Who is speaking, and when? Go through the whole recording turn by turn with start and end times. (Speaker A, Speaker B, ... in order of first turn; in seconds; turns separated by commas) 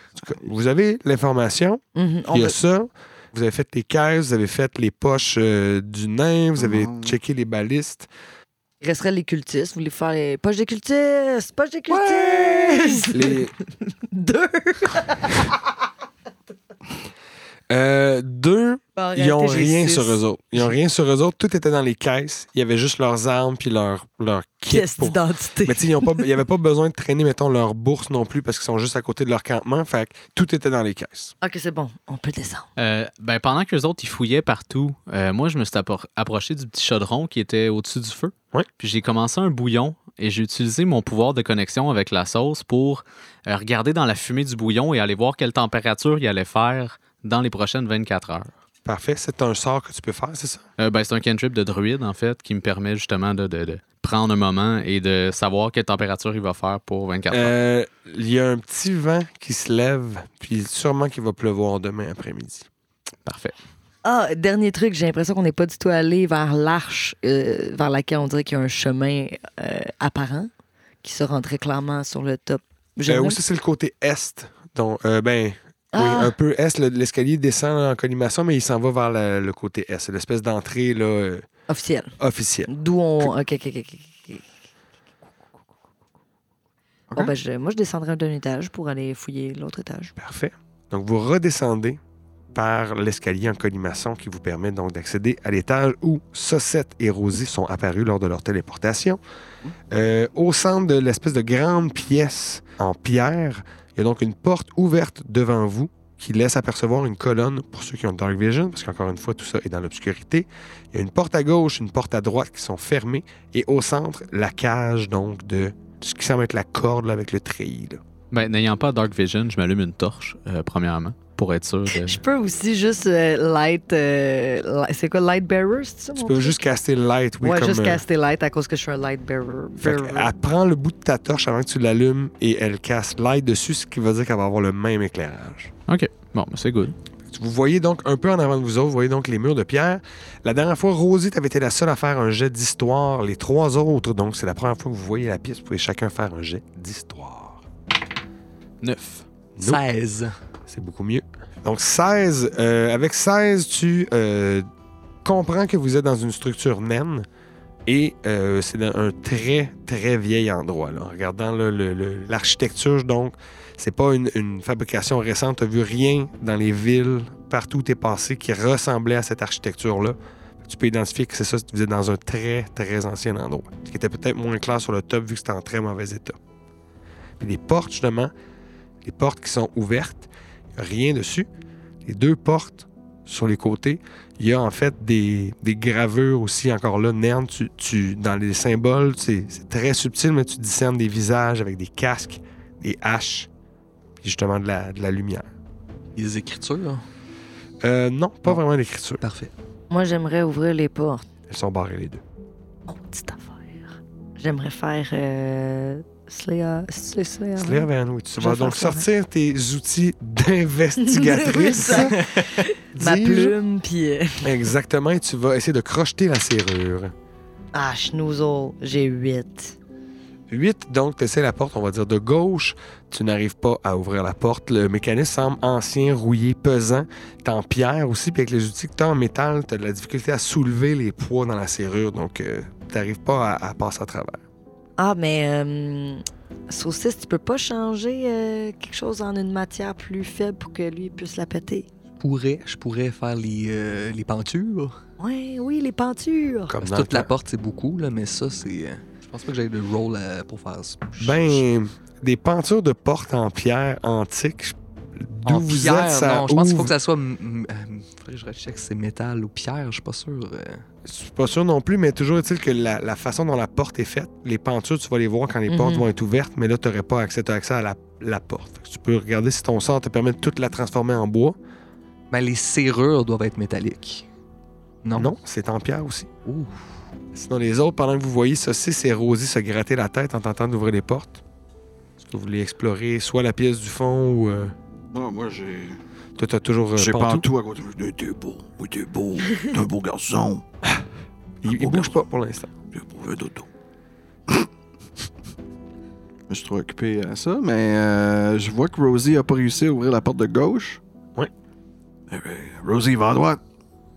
Speaker A: 0.2-0.6, Speaker B: 0.2-8.1, Speaker C: 1.9-2.6, Speaker A: 6.6-7.2, Speaker C: 8.8-15.5, Speaker B: 11.9-13.5, Speaker B: 17.7-31.3, Speaker C: 18.9-20.2, Speaker C: 24.7-26.3, Speaker C: 31.4-32.7, Speaker D: 32.8-48.5, Speaker B: 48.8-50.6, Speaker D: 50.8-57.5, Speaker B: 57.3-62.7, Speaker D: 63.2-63.5, Speaker C: 64.0-70.5, Speaker C: 71.0-73.4, Speaker B: 73.1-81.5, Speaker C: 75.9-76.3, Speaker C: 81.7-82.2, Speaker B: 82.2-82.7, Speaker C: 82.7-84.4, Speaker A: 87.1-87.3, Speaker C: 87.2-90.1, Speaker B: 90.2-92.0, Speaker B: 92.5-99.2, Speaker B: 99.9-118.0, Speaker D: 118.3-122.2, Speaker C: 121.9-126.6, Speaker B: 126.2-128.0, Speaker C: 127.4-130.3, Speaker B: 129.8-135.7, Speaker D: 135.9-136.9, Speaker B: 137.3-147.6, Speaker D: 148.8-149.2, Speaker E: 149.6-150.3, Speaker B: 150.7-154.7, Speaker B: 155.2-157.2, Speaker B: 157.8-176.4, Speaker B: 177.4-178.3, Speaker B: 179.0-181.5, Speaker B: 182.0-193.5, Speaker B: 194.2-195.5, Speaker E: 196.2-197.0, Speaker B: 197.8-199.2, Speaker E: 199.2-199.5, Speaker C: 199.9-201.2, Speaker B: 201.5-202.2, Speaker C: 202.9-203.8, Speaker C: 204.4-209.1, Speaker B: 207.6-212.2, Speaker C: 211.0-214.5, Speaker B: 212.9-213.5, Speaker B: 214.4-217.1, Speaker C: 217.7-219.8, Speaker B: 220.5-234.4, Speaker C: 235.0-241.9, Speaker E: 242.2-244.9, Speaker C: 245.2-246.7, Speaker B: 246.7-247.3, Speaker E: 246.8-251.6, Speaker B: 251.2-256.9, Speaker E: 255.4-260.8, Speaker B: 261.1-271.6, Speaker C: 265.7-266.1, Speaker E: 272.3-274.2, Speaker E: 275.0-275.3, Speaker B: 275.1-276.3, Speaker E: 276.4-276.8, Speaker B: 277.3-281.4, Speaker B: 282.2-284.7, Speaker A: 285.1-286.0, Speaker B: 286.4-287.4, Speaker A: 286.9-290.6, Speaker B: 291.6-292.7, Speaker A: 291.6-292.2, Speaker A: 292.9-293.7, Speaker A: 296.5-301.0, Speaker A: 302.3-303.6